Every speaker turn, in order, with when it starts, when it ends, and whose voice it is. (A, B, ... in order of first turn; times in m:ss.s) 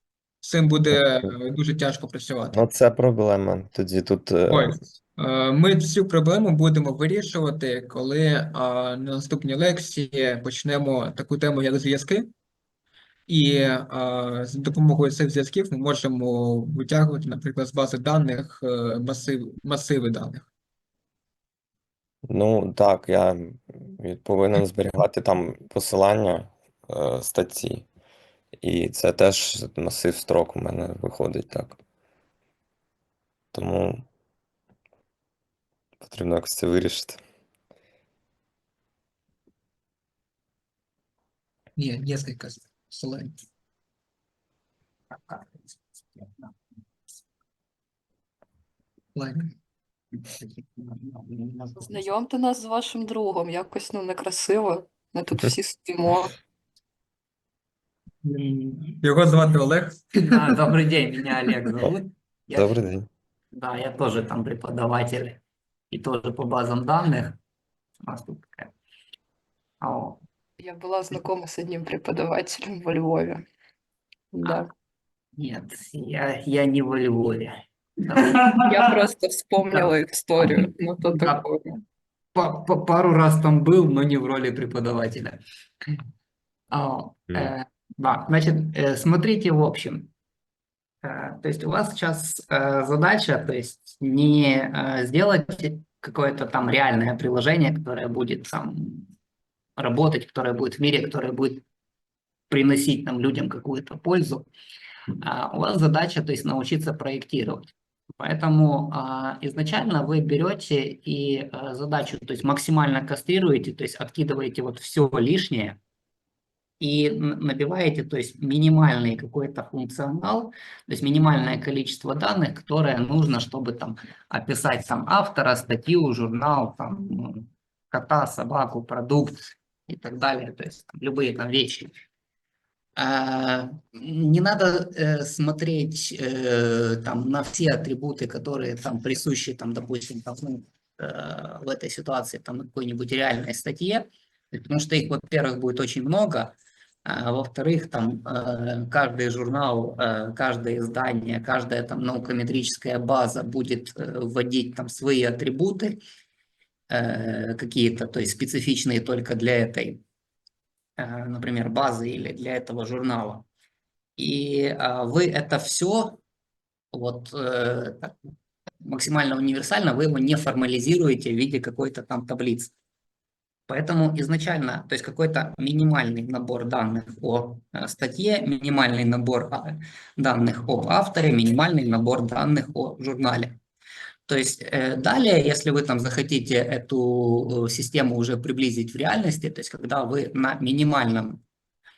0:00.4-0:02.6 A
0:02.5-0:04.8 B
0:04.5-0:12.3 A
0:13.3-0:20.5 A
0:22.2-0:27.9 B
0:28.6-0:31.8 B
0:33.5-0:34.0 B
0:36.0-0:37.2 B
0:41.8-0:43.4 A
0:45.1-0:46.5 C
0:49.1-0:49.5 A
0:50.2-0:51.9 C
0:51.8-0:56.3 D
0:58.2-0:59.0 C
0:59.0-1:00.4 A
1:00.1-1:02.7 C
1:02.5-1:03.1 B
1:03.5-1:05.4 C
1:05.9-1:07.4 C
1:08.0-1:08.7 C
1:09.8-1:10.2 C
1:10.6-1:13.4 D
1:14.3-1:14.7 D
1:15.4-1:18.9 C
1:18.6-1:21.6 D
1:20.4-1:21.8 C
1:22.3-1:25.4 C
1:26.7-1:30.1 C
1:31.0-1:39.1 C
1:39.8-1:41.6 C
1:42.5-1:44.5 C
1:45.2-1:55.8 C
1:56.8-2:11.9 C
2:13.0-2:36.0 C
2:36.9-2:40.0 C
2:41.0-2:43.5 C
2:44.2-2:46.2 C
2:46.9-2:48.1 C
2:48.8-2:52.7 C
2:53.7-3:03.6 C
3:04.3-3:11.4 C